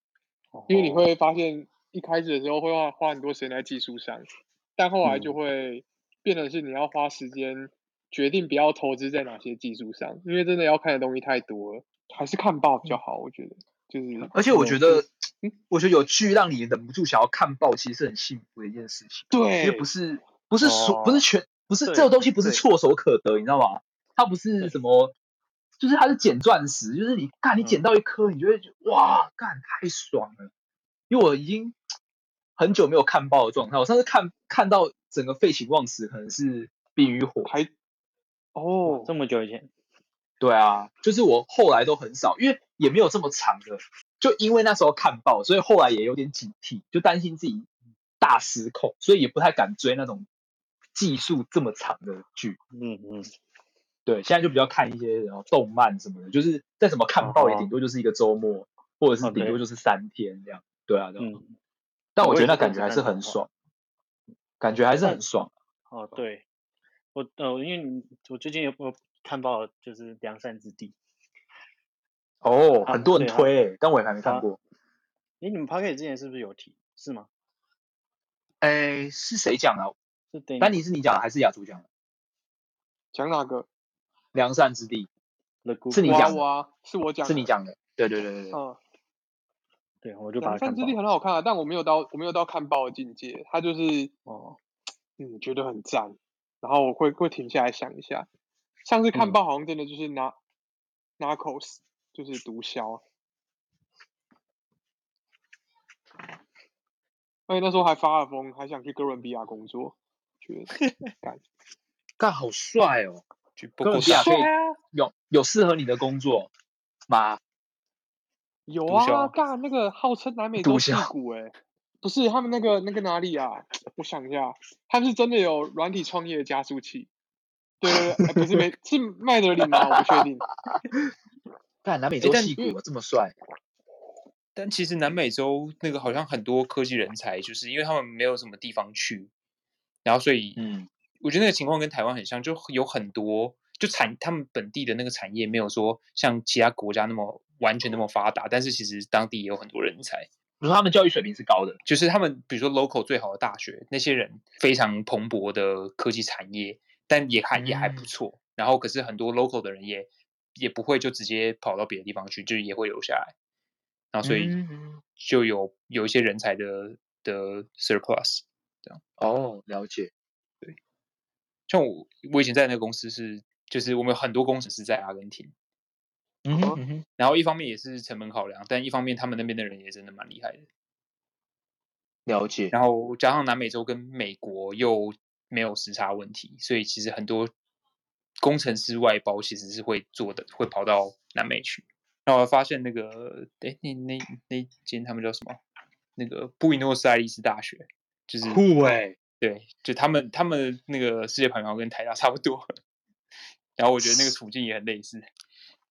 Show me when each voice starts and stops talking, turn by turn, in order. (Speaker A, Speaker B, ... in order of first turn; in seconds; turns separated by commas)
Speaker A: 0.5-1.1, Speaker B: 0.7-14.3, Speaker A: 5.0-5.3, Speaker A: 14.2-15.0, Speaker C: 14.3-15.1, Speaker C: 15.7-25.1, Speaker B: 19.3-19.9, Speaker A: 20.6-21.2, Speaker A: 21.8-22.6, Speaker C: 25.8-30.5, Speaker C: 31.1-31.7, Speaker C: 32.6-37.5, Speaker B: 37.4-37.7, Speaker B: 38.5-39.1, Speaker A: 38.8-39.7, Speaker C: 40.4-47.7, Speaker C: 48.2-50.3, Speaker C: 50.9-52.6, Speaker A: 52.7-53.3, Speaker C: 54.0-61.3, Speaker A: 57.2-57.7, Speaker A: 59.2-59.6, Speaker A: 61.2-61.5, Speaker C: 62.1-63.5, Speaker A: 62.2-63.4, Speaker C: 64.6-65.5, Speaker A: 65.9-66.4, Speaker A: 67.1-70.9, Speaker C: 72.4-74.6, Speaker A: 72.8-73.5, Speaker A: 75.4-77.3, Speaker C: 78.6-80.0, Speaker A: 80.3-80.8, Speaker C: 80.6-81.8, Speaker B: 83.1-83.7, Speaker C: 84.3-85.1, Speaker A: 85.6-86.4, Speaker C: 85.9-86.4, Speaker B: 86.0-87.5, Speaker C: 87.2-88.6, Speaker B: 88.5-88.8, Speaker A: 90.0-91.0, Speaker B: 90.4-94.1, Speaker A: 94.3-94.6, Speaker B: 95.2-98.3, Speaker B: 98.8-100.4, Speaker B: 101.2-103.0, Speaker B: 107.5-110.7, Speaker D: 110.8-111.1, Speaker C: 112.2-113.2, Speaker D: 113.6-114.4, Speaker C: 113.8-116.5, Speaker B: 114.0-114.8, Speaker C: 117.1-117.4, Speaker B: 118.7-127.1, Speaker D: 118.9-119.3, Speaker C: 120.6-121.1, Speaker B: 127.8-130.4, Speaker C: 127.9-128.6, Speaker C: 129.7-130.1, Speaker C: 131.8-133.3, Speaker D: 132.2-132.7, Speaker D: 134.5-139.3, Speaker D: 140.0-140.6, Speaker C: 140.6-140.9, Speaker D: 141.2-150.3, Speaker C: 150.6-151.8, Speaker D: 151.8-163.3, Speaker C: 157.6-158.1, Speaker D: 164.1-164.6, Speaker C: 164.2-165.0, Speaker D: 165.2-169.0, Speaker C: 169.2-170.1, Speaker D: 171.7-175.5, Speaker C: 176.4-177.0, Speaker D: 177.2-180.7, Speaker C: 182.2-182.7, Speaker D: 182.7-187.5, Speaker D: 188.4-195.6, Speaker D: 196.2-202.7, Speaker C: 198.4-199.2, Speaker D: 203.8-205.2, Speaker C: 204.0-204.3